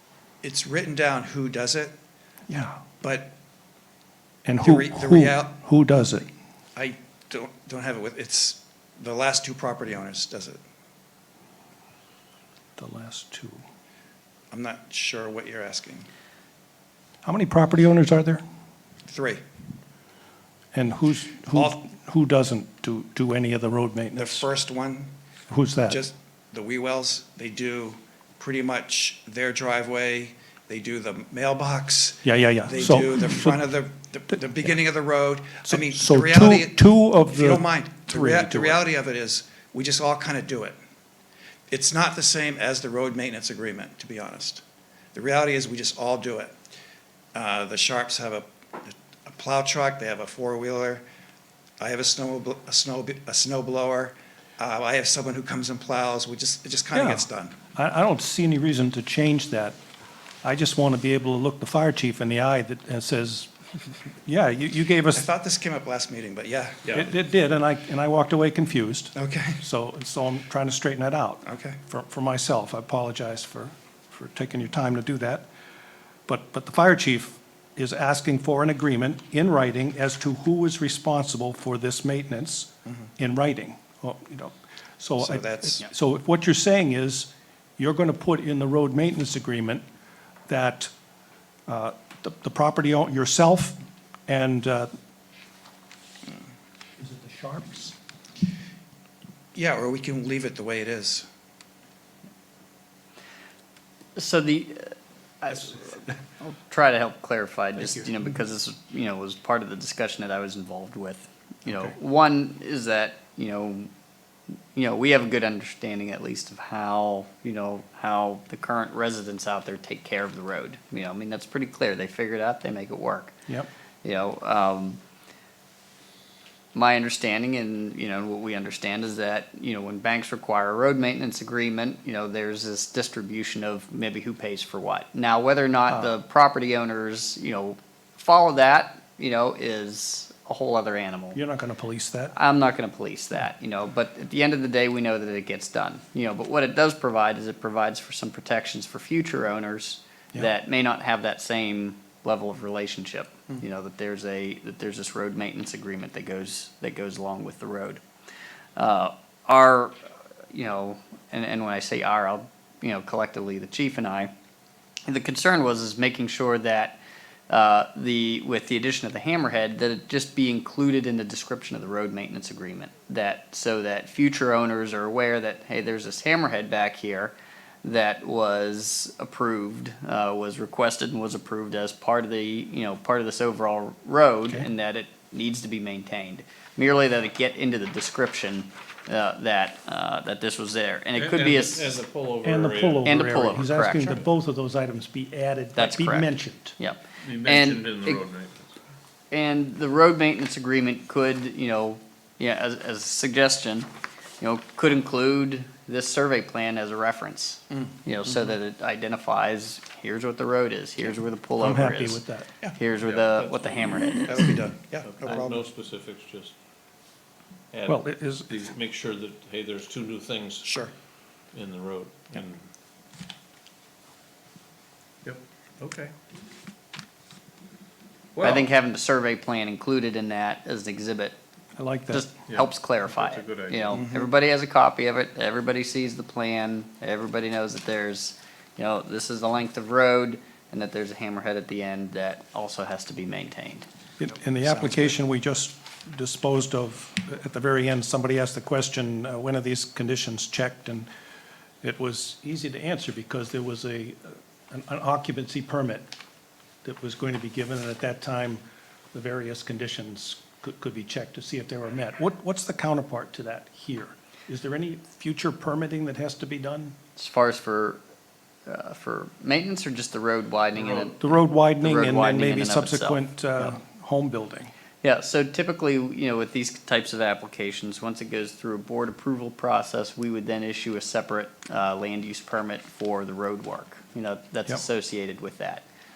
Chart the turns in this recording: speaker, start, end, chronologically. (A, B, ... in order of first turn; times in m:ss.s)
0:00.4-0:01.9 A
0:02.5-0:02.8 B
0:03.0-0:03.3 A
0:04.4-0:06.3 B
0:04.6-0:05.5 A
0:06.8-0:10.6 A
0:12.8-0:13.6 B
0:14.5-0:16.1 A
0:17.2-0:18.4 B
0:19.1-0:19.4 A
0:20.7-0:24.4 B
0:24.1-0:25.1 A
0:25.5-0:26.0 B
0:25.9-0:36.8 A
0:32.2-0:33.5 B
0:35.7-0:38.8 B
0:37.3-0:40.8 A
0:41.7-0:44.6 A
0:45.1-0:46.5 A
0:47.3-0:51.0 A
0:51.8-0:57.6 A
0:56.9-0:59.8 B
1:00.4-1:05.2 B
1:05.1-1:07.0 A
1:06.9-1:15.4 B
1:09.1-1:09.6 A
1:11.4-1:11.8 A
1:16.3-1:29.8 B
1:25.2-1:25.8 A
1:30.5-1:30.9 B
1:31.7-1:33.8 B
1:34.3-1:34.9 B
1:37.0-1:37.9 B
1:39.5-1:41.3 A
1:44.2-1:53.9 C
1:51.7-1:51.9 B
1:54.7-2:03.3 C
2:04.0-2:05.0 C
2:06.7-2:21.4 C
2:21.3-2:22.3 B
2:22.3-2:38.0 C
2:38.8-2:39.9 C
2:40.5-2:44.3 C
2:45.1-3:12.0 C
3:11.1-3:13.2 D
3:12.4-3:16.8 B
3:13.0-3:14.2 C
3:15.8-3:18.2 C
3:17.2-3:18.7 D
3:19.3-3:23.9 C
3:24.4-3:32.2 C
3:31.6-3:32.5 B
3:32.7-3:34.5 C
3:33.0-3:34.3 D
3:34.3-3:35.6 A
3:35.0-3:36.5 D
3:37.7-3:40.6 D
3:37.9-3:38.5 B
3:40.6-3:40.9 A
3:41.5-3:42.6 D
3:45.2-3:46.1 D
3:48.4-3:48.7 D
3:48.4-3:51.4 C
3:51.8-3:52.3 B
3:52.1-4:03.8 C
3:52.5-3:54.0 D
4:04.2-4:11.1 B
4:04.6-4:05.1 A
4:11.8-4:16.1 B
4:16.8-4:18.6 B
4:19.1-4:27.0 B
4:27.2-4:28.0 C
4:28.7-4:33.7 C
4:31.0-4:34.7 B
4:35.0-4:45.8 C